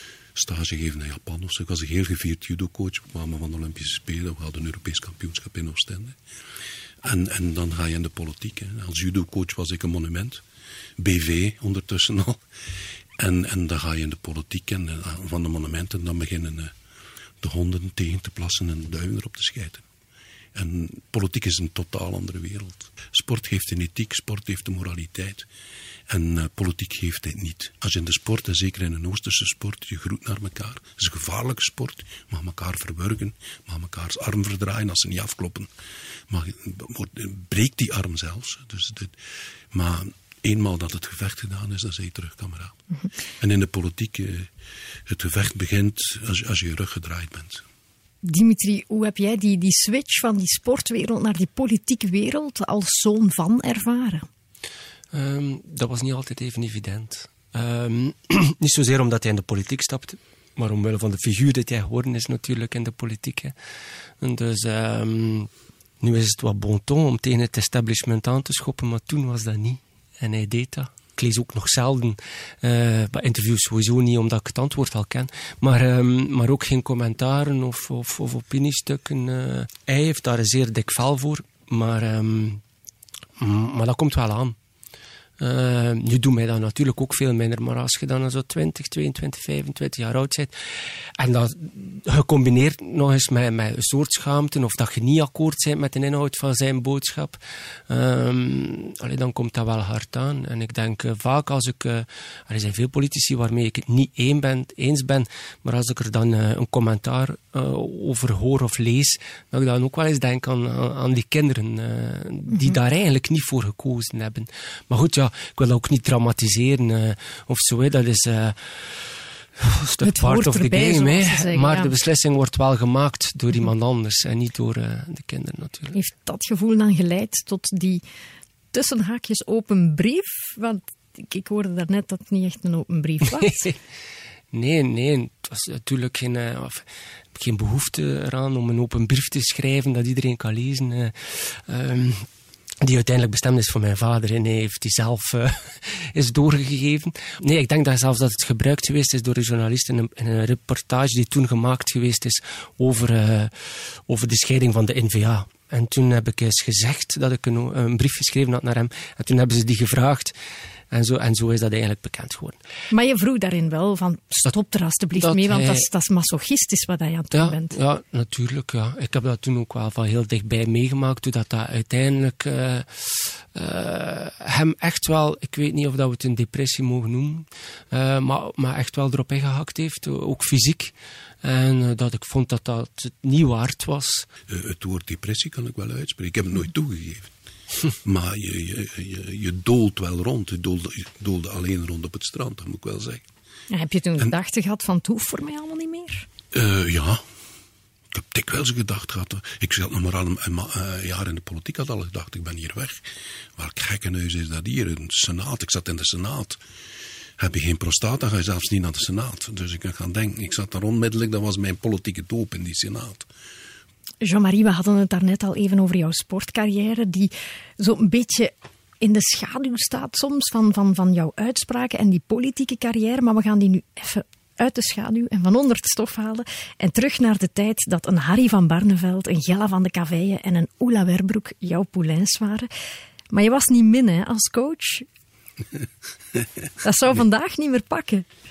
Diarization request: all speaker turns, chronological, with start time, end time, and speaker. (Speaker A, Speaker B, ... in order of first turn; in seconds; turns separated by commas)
Speaker A: 0.3-6.2, Speaker A: 7.0-10.4, Speaker A: 11.0-12.4, Speaker A: 13.2-16.7, Speaker A: 17.4-19.8, Speaker A: 20.5-25.5, Speaker A: 26.1-35.7, Speaker A: 36.3-39.2, Speaker A: 39.7-42.8, Speaker A: 43.4-44.5, Speaker A: 45.1-47.6, Speaker B: 48.2-54.2, Speaker C: 55.1-63.5, Speaker C: 64.2-65.5, Speaker C: 66.0-82.6, Speaker C: 83.4-84.5, Speaker C: 85.4-97.4, Speaker C: 97.9-126.0, Speaker B: 112.5-112.8, Speaker B: 120.0-121.9, Speaker B: 125.9-128.0, Speaker B: 128.7-133.7, Speaker C: 134.5-142.2, Speaker C: 142.8-160.3, Speaker C: 160.9-162.6, Speaker B: 162.9-167.8, Speaker C: 165.2-165.9, Speaker C: 167.3-184.3, Speaker A: 184.5-187.3, Speaker A: 188.0-193.2, Speaker B: 193.7-196.3, Speaker A: 196.5-197.2, Speaker A: 198.1-206.6, Speaker A: 207.4-213.3, Speaker B: 214.2-232.7, Speaker B: 233.3-235.1, Speaker B: 236.8-238.2